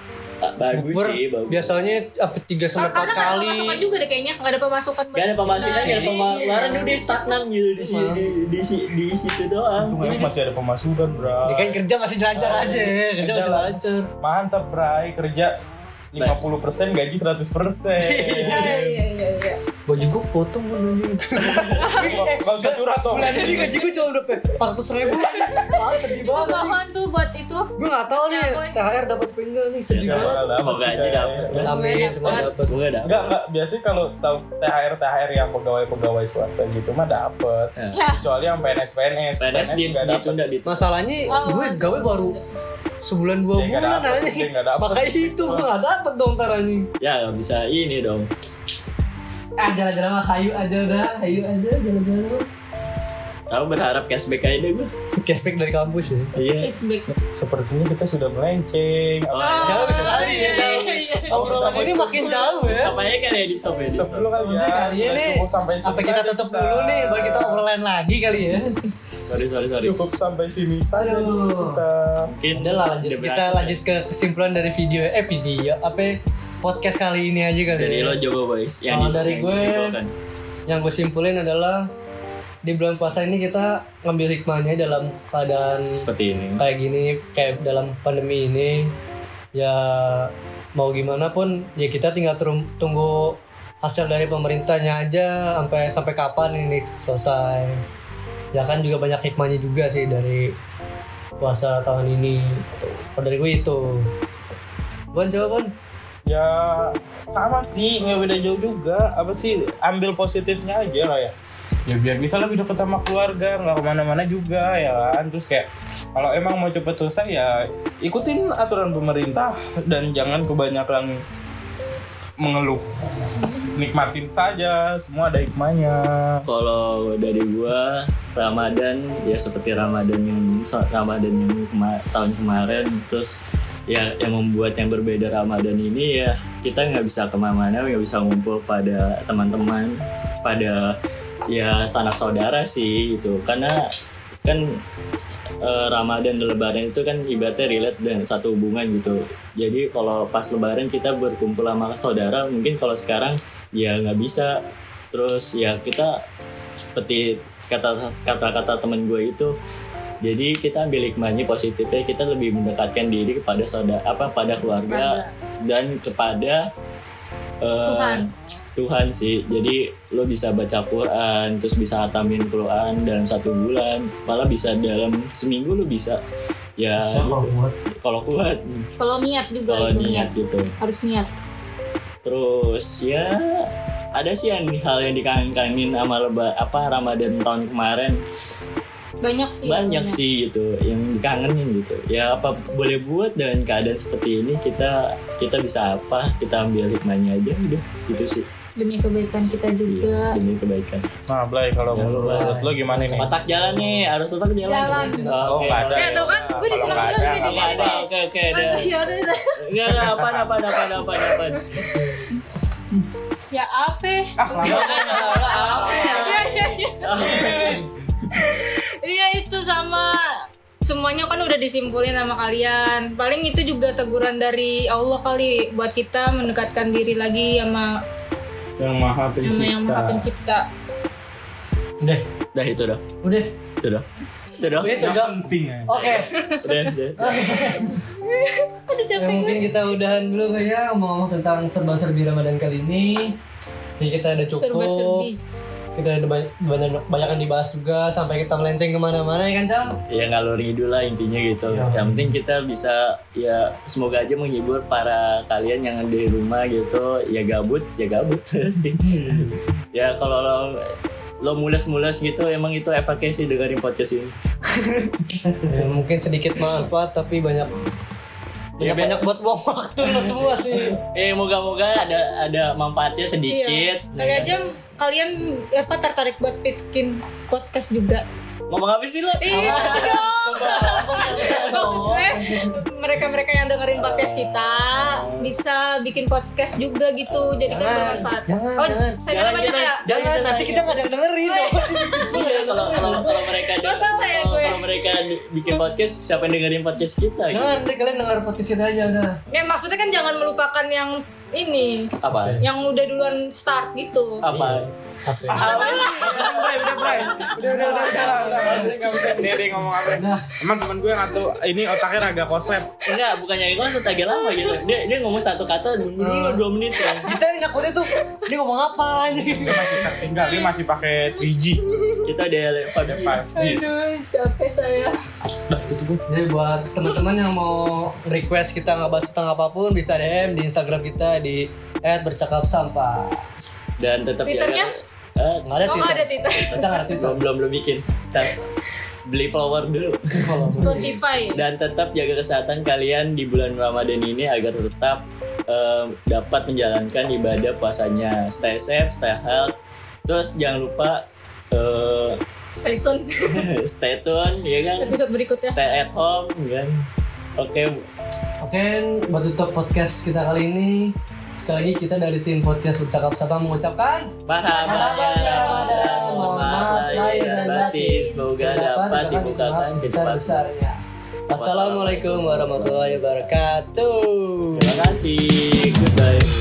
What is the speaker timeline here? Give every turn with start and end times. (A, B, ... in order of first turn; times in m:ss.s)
0:00.4-0:01.9 A
0:00.7-0:03.8 B
0:02.7-0:06.5 C
0:05.1-0:10.0 A
0:05.6-0:07.0 B
0:07.8-0:08.2 B
0:09.8-0:11.8 D
0:10.0-0:10.3 B
0:11.4-0:14.1 B
0:12.4-0:15.5 D
0:16.1-0:18.8 D
0:18.0-0:19.0 B
0:18.4-0:19.6 C
0:19.9-0:26.8 B
0:21.8-0:22.2 C
0:21.8-0:23.8 D
0:26.2-0:28.8 C
0:27.8-0:30.4 B
0:29.9-0:31.7 A
0:30.0-0:31.7 D
0:31.6-0:32.8 B
0:31.7-0:32.5 C
0:32.2-0:33.1 A
0:33.0-0:40.4 D
0:37.8-0:38.0 A
0:37.9-0:38.2 C
0:39.4-0:40.8 A
0:40.6-0:42.4 B
0:41.3-0:42.4 C
0:43.0-0:46.9 B
0:43.5-0:45.7 D
0:47.0-0:48.3 A
0:49.6-0:52.4 B
0:53.5-0:54.9 A
0:55.2-0:56.3 B
0:56.3-0:56.7 A
0:56.6-0:57.1 C
0:57.3-1:00.0 D
0:59.3-1:04.3 A
0:59.4-1:01.4 C
0:59.6-1:03.0 B
1:01.3-1:02.3 D
1:03.8-1:07.6 D
1:04.4-1:08.8 B
1:09.2-1:10.0 A
1:09.8-1:12.3 D
1:10.9-1:11.8 B
1:12.2-1:13.8 A
1:12.5-1:18.2 B
1:17.7-1:20.1 A
1:18.9-1:20.0 B
1:20.7-1:21.9 B
1:22.6-1:26.0 B
1:25.9-1:26.6 A
1:26.6-1:28.9 B
1:29.5-1:37.8 B
1:38.5-1:40.5 B
1:41.4-1:44.1 B
1:45.1-1:45.7 B
1:46.3-1:51.3 D
1:51.9-2:01.2 D
2:02.4-2:02.9 D
2:03.5-2:06.4 D
2:06.4-2:21.0 A
2:21.5-2:23.9 A
2:24.4-2:24.8 A
2:25.6-2:34.6 A
2:35.1-2:36.2 A
2:37.0-2:39.5 A
2:40.2-2:46.7 A
2:44.8-2:45.3 C
2:47.6-2:56.2 A
2:47.8-2:48.3 C
2:56.8-2:58.9 A
2:57.0-2:57.7 B
2:59.0-3:01.3 C
2:59.7-3:00.7 A
3:02.2-3:08.2 A
3:09.2-3:10.2 C
3:09.6-3:18.4 A
3:18.8-3:20.4 C
3:19.9-3:21.1 A
3:21.3-3:23.3 D
3:21.9-3:22.6 A
3:22.0-3:24.1 B
3:23.2-3:26.3 A
3:24.6-3:25.3 C
3:24.7-3:25.8 B
3:25.4-3:28.0 D
3:25.9-3:29.6 C
3:26.8-3:28.9 A
3:29.6-3:31.9 A
3:30.0-3:30.5 D
3:33.5-3:37.8 C
3:34.4-3:36.5 D
3:34.6-3:37.9 A
3:37.3-3:37.7 B
3:38.3-3:48.0 C
3:48.8-3:50.3 D
3:49.4-3:50.6 C
3:52.5-3:53.0 A
3:53.2-3:53.5 B
3:53.8-3:55.2 A
3:54.8-3:56.3 B
3:54.8-3:56.0 D
3:55.9-3:58.0 A
3:56.4-3:56.9 C
3:57.2-3:57.9 B
3:58.2-3:59.7 C
3:59.2-4:03.4 B
4:04.0-4:05.3 B
4:04.5-4:05.4 C
4:06.0-4:10.0 B
4:10.1-4:20.9 A
4:11.7-4:12.3 B
4:19.0-4:19.5 D
4:21.4-4:25.6 A
4:25.6-4:27.7 B
4:28.8-4:31.0 B
4:28.8-4:29.2 A
4:30.8-4:34.5 A
4:33.5-4:38.2 C
4:38.7-4:42.7 A
4:39.4-4:50.0 C
4:39.4-4:42.6 B
4:43.9-4:45.5 A
4:47.2-4:48.2 A
4:47.6-4:49.2 B
4:49.3-4:51.0 A
4:50.0-4:53.3 B
4:51.4-4:54.8 C
4:52.2-4:57.8 A
4:57.5-4:59.4 B
4:59.5-5:04.4 C
5:02.2-5:02.6 A
5:02.4-5:02.6 B
5:04.4-5:04.9 A
5:04.4-5:10.5 B
5:05.5-5:06.6 C
5:05.5-5:09.2 A
5:05.8-5:13.0 D
5:13.0-5:17.3 A
5:16.2-5:16.6 B
5:17.2-5:20.1 B
5:19.4-5:21.8 D
5:20.4-5:20.7 C
5:21.9-5:22.1 C
5:22.2-5:23.4 A
5:23.0-5:23.8 D
5:23.5-5:25.1 C
5:25.7-5:26.2 D
5:26.3-5:33.4 B
5:34.0-5:38.6 A
5:34.4-5:34.9 C
5:35.6-5:37.4 B
5:35.8-5:37.0 C
5:39.3-5:49.7 A
5:40.3-5:41.2 B
5:40.8-5:41.6 C
5:50.3-5:52.4 A
5:52.8-5:53.7 C
5:53.4-5:55.1 A
5:55.0-5:56.0 C
5:55.7-5:57.0 A
5:57.6-5:58.0 A
5:58.6-6:11.0 B
6:04.5-6:10.6 A
6:04.7-6:08.4 C
6:11.5-6:15.1 B
6:11.5-6:13.5 A
6:14.7-6:16.5 A